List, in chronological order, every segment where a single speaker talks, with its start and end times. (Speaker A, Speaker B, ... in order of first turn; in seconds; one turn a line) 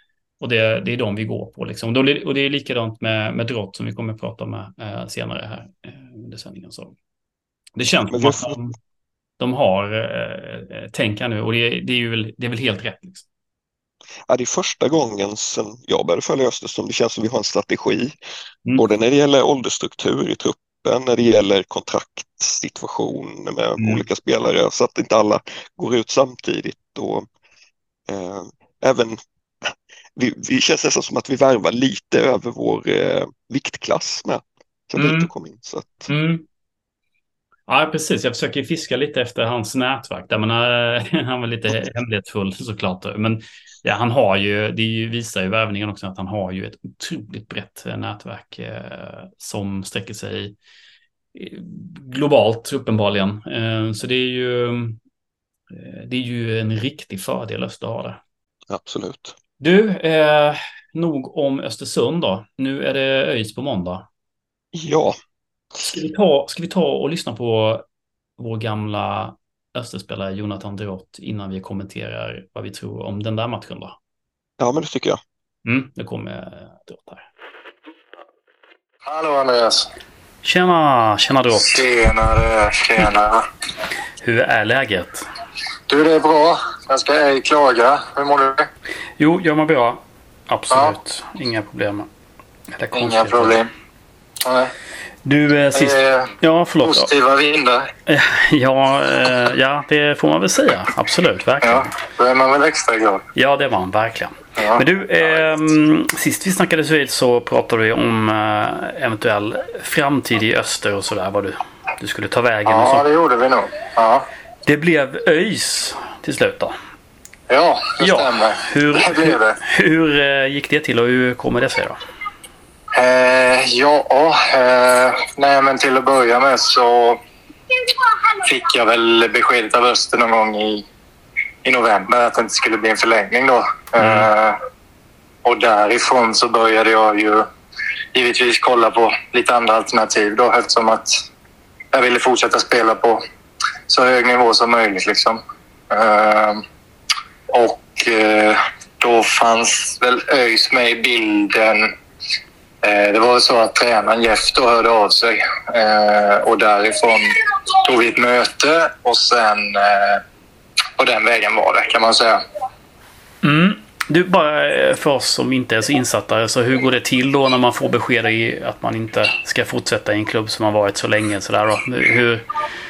Speaker A: 0.4-6.9
Speaker A: 7.8-8.7
Speaker B: 8.1-8.6
Speaker A: 9.4-13.2
Speaker B: 14.3-18.1
Speaker B: 18.8-27.2
Speaker A: 23.8-24.0
Speaker B: 28.1-36.1
Speaker A: 35.0-35.3
Speaker A: 36.1-36.4
Speaker A: 37.7-50.5
Speaker A: 51.3-55.0
Speaker A: 55.7-58.2
Speaker B: 58.7-59.3
Speaker A: 59.6-64.0
Speaker B: 64.7-65.2
Speaker A: 65.8-67.8
Speaker A: 68.4-74.0
Speaker B: 74.6-75.2
Speaker A: 75.6-77.2
Speaker C: 79.0-79.9
Speaker A: 80.4-81.8
Speaker C: 81.6-83.4
Speaker A: 84.2-85.2
Speaker C: 85.9-88.7
Speaker A: 89.2-92.1
Speaker A: 92.7-93.6
Speaker C: 92.9-93.7
Speaker C: 94.4-94.7
Speaker A: 95.2-97.1
Speaker C: 95.7-97.9
Speaker A: 98.1-101.9
Speaker C: 101.6-103.2
Speaker A: 103.3-113.0
Speaker C: 104.6-104.8
Speaker C: 112.7-114.2
Speaker A: 114.7-116.8
Speaker C: 117.5-119.6
Speaker A: 118.0-122.0
Speaker C: 122.9-127.2
Speaker C: 128.4-130.8
Speaker C: 131.6-134.6
Speaker A: 134.0-134.3
Speaker C: 135.4-137.5
Speaker C: 138.1-141.2
Speaker C: 141.9-143.2
Speaker C: 143.9-145.4
Speaker C: 145.9-146.6
Speaker C: 147.5-151.9
Speaker C: 152.8-160.2
Speaker C: 161.0-162.4
Speaker A: 163.4-172.4